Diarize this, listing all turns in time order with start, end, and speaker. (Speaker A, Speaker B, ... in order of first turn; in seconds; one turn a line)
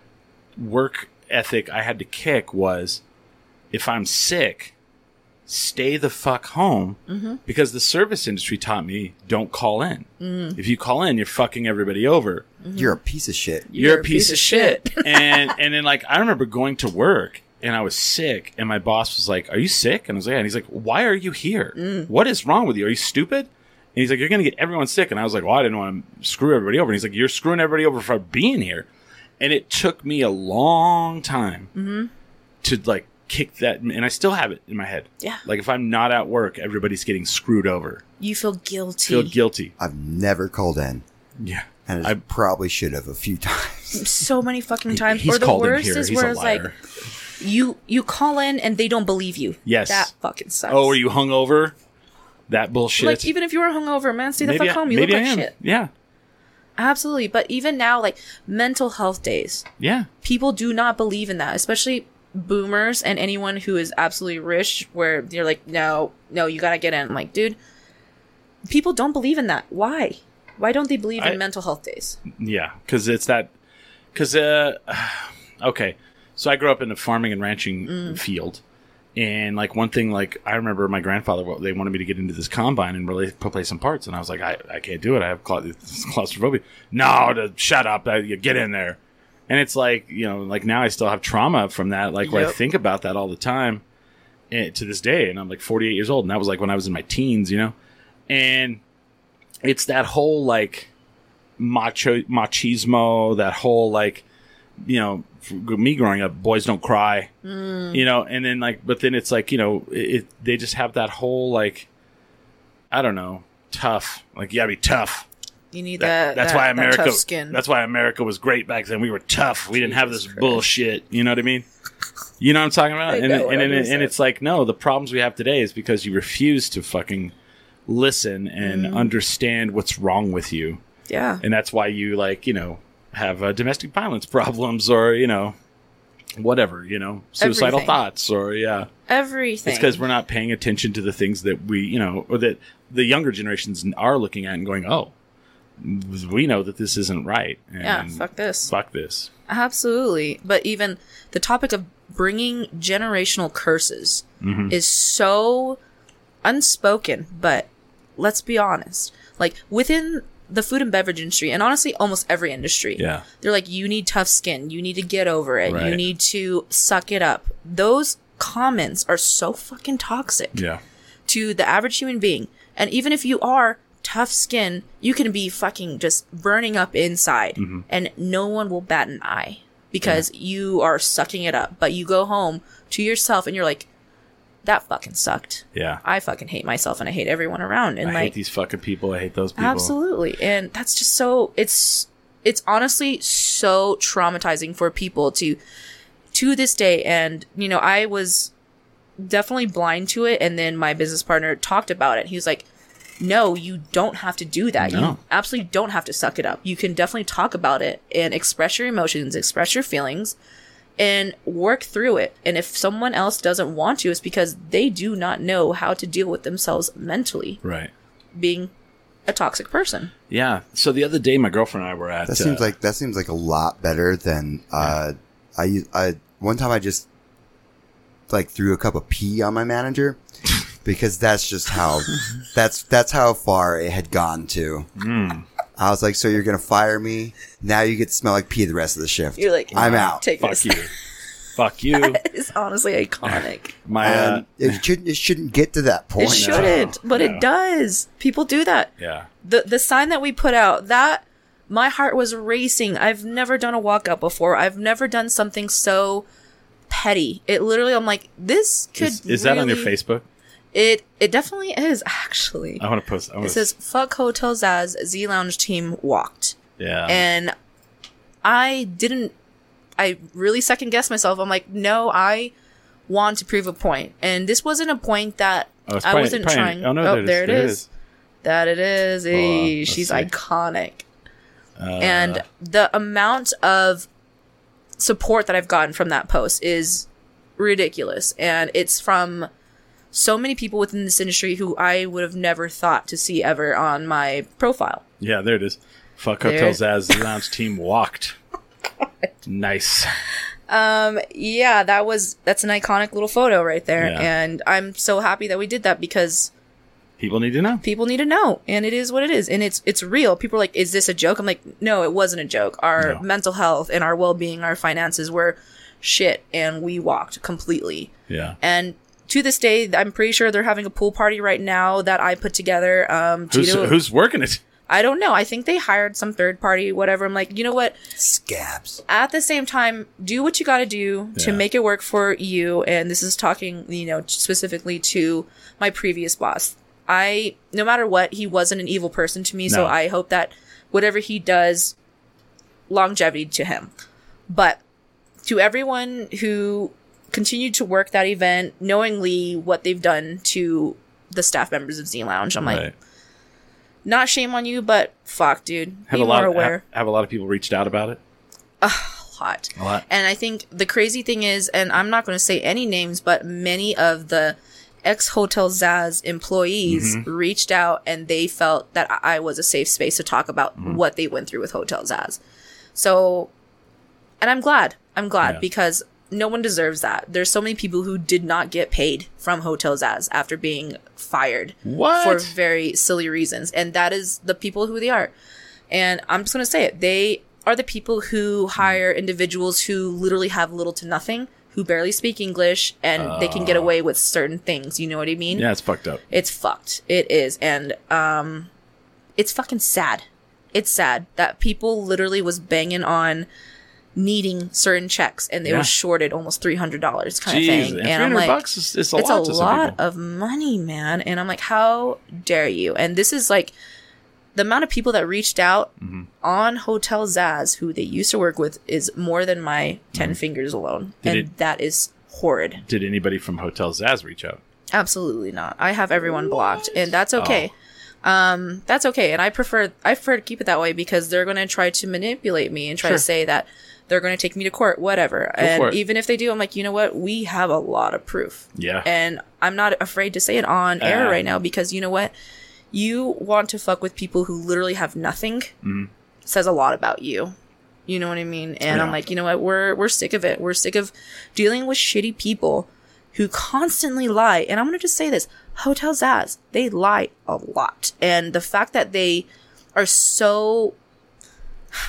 Speaker A: 0.6-3.0
Speaker A: 3.7-4.7
Speaker A: 5.5-12.4
Speaker B: 7.1-7.4
Speaker B: 10.2-10.6
Speaker B: 12.6-13.0
Speaker C: 12.8-13.7
Speaker B: 13.7-15.5
Speaker A: 13.8-28.9
Speaker B: 21.8-22.1
Speaker A: 29.4-31.7
Speaker B: 31.8-32.1
Speaker A: 32.6-38.0
Speaker B: 38.2-39.4
Speaker A: 39.1-39.7
Speaker C: 39.8-41.0
Speaker A: 41.4-42.2
Speaker C: 41.9-44.0
Speaker B: 43.9-46.7
Speaker A: 44.9-46.8
Speaker B: 47.4-51.0
Speaker A: 49.7-50.1
Speaker A: 50.7-51.7
Speaker A: 52.5-53.3
Speaker B: 53.0-55.5
Speaker A: 54.4-55.9
Speaker B: 56.8-59.6
Speaker A: 59.8-60.1
Speaker B: 60.2-67.6
Speaker B: 68.7-72.2
Speaker A: 72.3-73.5
Speaker A: 74.1-78.6
Speaker B: 77.9-78.2
Speaker A: 79.2-93.8
Speaker B: 92.2-92.6
Speaker A: 94.5-97.7
Speaker A: 98.3-98.8
Speaker A: 99.6-100.9
Speaker A: 101.6-104.2
Speaker A: 104.8-107.3
Speaker B: 107.4-108.0
Speaker A: 107.9-111.9
Speaker A: 112.9-115.3
Speaker B: 115.7-117.6
Speaker A: 116.0-121.7
Speaker B: 119.8-120.7
Speaker A: 122.4-127.3
Speaker B: 123.1-124.1
Speaker A: 127.9-130.8
Speaker B: 128.6-129.1
Speaker B: 131.1-131.4
Speaker A: 131.4-135.6
Speaker A: 136.4-138.9
Speaker B: 137.4-138.0
Speaker B: 139.1-140.0
Speaker A: 139.7-145.1
Speaker A: 145.8-149.3
Speaker B: 147.8-148.7
Speaker B: 149.5-155.8
Speaker A: 154.4-154.7
Speaker B: 156.4-170.6
Speaker A: 163.0-163.2
Speaker A: 165.7-166.0
Speaker A: 170.5-170.8
Speaker B: 171.3-183.9
Speaker A: 177.6-177.8
Speaker B: 184.7-188.3
Speaker A: 185.8-186.0
Speaker A: 188.0-189.9
Speaker B: 189.6-195.6
Speaker B: 196.3-198.5
Speaker B: 199.2-202.7
Speaker B: 203.2-210.4
Speaker A: 204.8-205.2
Speaker B: 211.0-217.6
Speaker A: 217.6-217.9
Speaker B: 218.4-218.7
Speaker B: 219.3-220.1
Speaker A: 220.3-222.7
Speaker C: 222.3-227.1
Speaker C: 228.3-230.2
Speaker C: 230.8-234.9
Speaker A: 235.0-235.4
Speaker C: 235.8-240.2
Speaker B: 239.4-240.9
Speaker A: 239.7-240.9
Speaker A: 241.6-242.2
Speaker B: 241.9-243.7
Speaker A: 243.2-244.8
Speaker C: 244.0-246.8
Speaker B: 246.2-248.9
Speaker A: 246.3-247.4
Speaker A: 249.0-249.3
Speaker B: 249.4-256.3
Speaker B: 256.9-259.9
Speaker A: 259.0-260.2
Speaker B: 260.7-262.8
Speaker A: 262.8-263.7
Speaker B: 263.4-266.6
Speaker A: 266.8-267.2
Speaker B: 267.1-267.5
Speaker B: 268.4-269.3
Speaker B: 270.0-272.5
Speaker B: 273.1-277.8
Speaker A: 275.9-277.9
Speaker B: 278.4-281.1
Speaker A: 279.3-280.3
Speaker A: 281.8-282.4
Speaker B: 282.0-284.1
Speaker B: 285.0-287.1
Speaker B: 287.6-289.5
Speaker B: 290.1-295.0
Speaker A: 295.2-298.4
Speaker B: 296.4-297.3
Speaker A: 299.4-300.1
Speaker B: 300.7-306.5
Speaker A: 304.0-304.3
Speaker A: 307.2-307.8
Speaker B: 307.8-324.0
Speaker A: 318.3-318.6
Speaker A: 323.5-324.6
Speaker B: 324.9-328.0
Speaker C: 328.2-329.0
Speaker B: 329.1-341.9
Speaker A: 331.4-331.6
Speaker A: 339.7-339.9
Speaker B: 342.9-343.9
Speaker B: 344.5-344.8
Speaker B: 345.4-352.9
Speaker A: 352.6-352.9
Speaker B: 354.1-356.8
Speaker A: 356.1-358.2
Speaker B: 358.8-372.4
Speaker A: 359.8-360.0
Speaker A: 366.9-367.3
Speaker B: 372.9-373.5
Speaker B: 374.4-385.3
Speaker A: 381.9-382.5
Speaker B: 385.9-395.7
Speaker A: 393.2-393.9
Speaker A: 395.5-396.2
Speaker B: 396.3-398.7
Speaker B: 399.4-403.5
Speaker B: 404.2-408.6
Speaker A: 405.6-405.9
Speaker A: 407.5-410.0
Speaker B: 409.2-413.7
Speaker B: 414.6-415.9
Speaker A: 416.0-416.3
Speaker B: 416.4-422.8
Speaker A: 421.2-421.5
Speaker A: 422.9-424.6
Speaker B: 424.9-427.7
Speaker A: 427.4-427.7
Speaker B: 428.2-442.3
Speaker A: 435.6-436.0
Speaker A: 438.8-439.1
Speaker A: 441.0-441.4
Speaker B: 442.9-445.7
Speaker A: 445.8-446.1
Speaker B: 446.4-447.6
Speaker B: 448.1-461.0
Speaker A: 448.9-449.2